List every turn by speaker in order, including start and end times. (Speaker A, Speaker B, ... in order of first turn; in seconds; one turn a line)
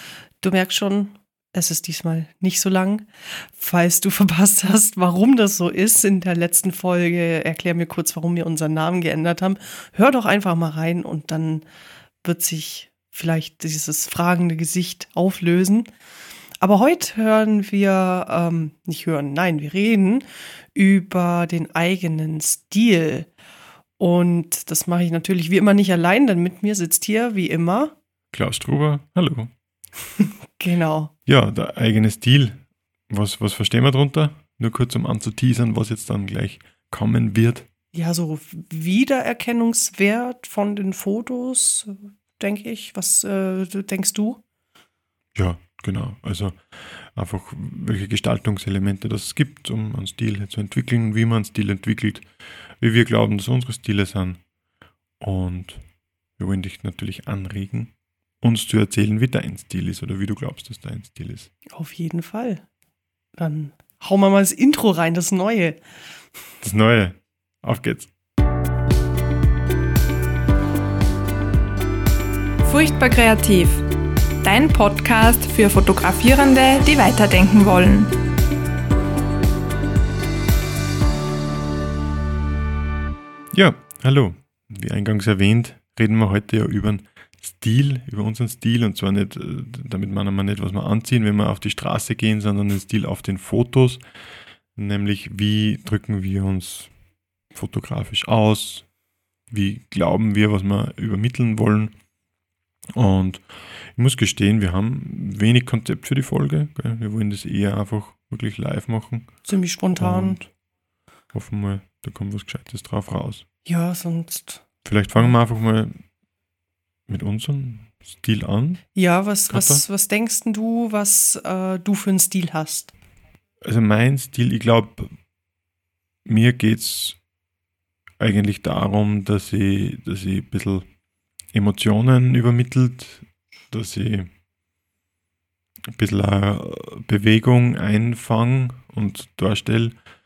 Speaker A: 0.4-11.7
Speaker A: 12.2-15.9
Speaker A: 16.6-23.3
Speaker A: 24.0-28.0
Speaker B: 28.3-29.5
Speaker A: 30.6-31.1
Speaker B: 31.3-37.7
Speaker A: 37.9-44.4
Speaker B: 45.4-54.4
Speaker B: 55.2-55.9
Speaker B: 56.4-61.5
Speaker A: 61.7-62.6
Speaker A: 63.4-65.8
Speaker B: 66.6-68.1
Speaker C: 72.6-73.8
Speaker C: 74.4-78.2
Speaker B: 83.5-94.0
Speaker B: 94.7-96.9
Speaker B: 97.5-98.9
Speaker B: 99.5-101.9
Speaker B: 102.9-110.5
Speaker A: 109.5-110.4
Speaker B: 111.3-113.5
Speaker A: 113.7-115.4
Speaker B: 114.8-116.0
Speaker B: 117.1-119.8
Speaker A: 119.0-122.9
Speaker B: 123.6-125.2
Speaker B: 126.2-127.2
Speaker B: 128.2-130.9
Speaker B: 131.5-134.3
Speaker B: 135.9-140.0